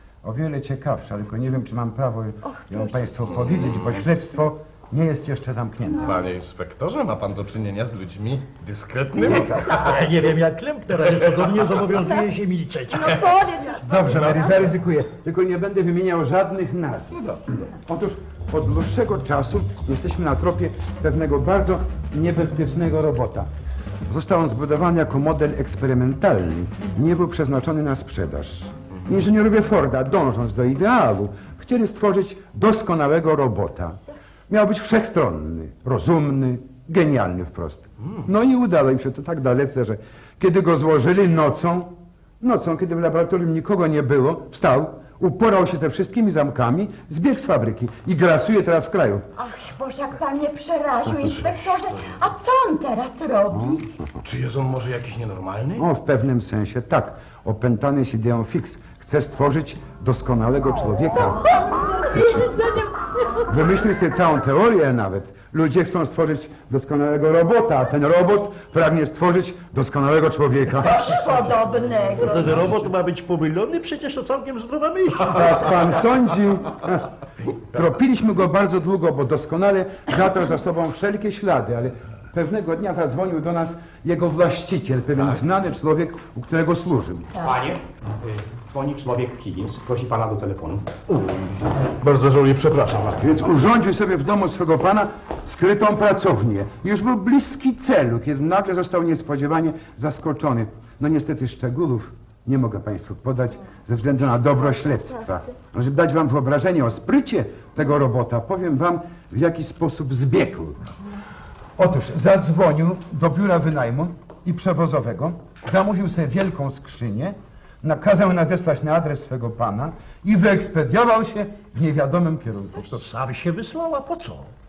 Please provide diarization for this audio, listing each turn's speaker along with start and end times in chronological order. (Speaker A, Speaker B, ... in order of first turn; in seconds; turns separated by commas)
Speaker A: 0.2-6.1, Speaker B: 2.5-2.9, Speaker C: 3.4-4.1, Speaker C: 6.0-9.9, Speaker A: 9.2-9.8, Speaker D: 9.3-13.7, Speaker C: 11.1-11.9, Speaker B: 12.9-14.6, Speaker A: 13.8-23.5, Speaker C: 17.1-17.4, Speaker A: 24.1-34.0, Speaker A: 34.5-49.3, Speaker B: 49.4-53.9, Speaker C: 54.2-55.9, Speaker A: 55.8-61.4, Speaker B: 61.2-63.7, Speaker A: 63.5-71.2, Speaker B: 70.7-72.6, Speaker D: 72.2-75.8, Speaker A: 75.3-77.1, Speaker A: 77.7-87.3, Speaker E: 87.4-90.9, Speaker C: 91.1-93.3, Speaker A: 93.2-110.9, Speaker A: 111.8-122.9, Speaker D: 122.8-124.5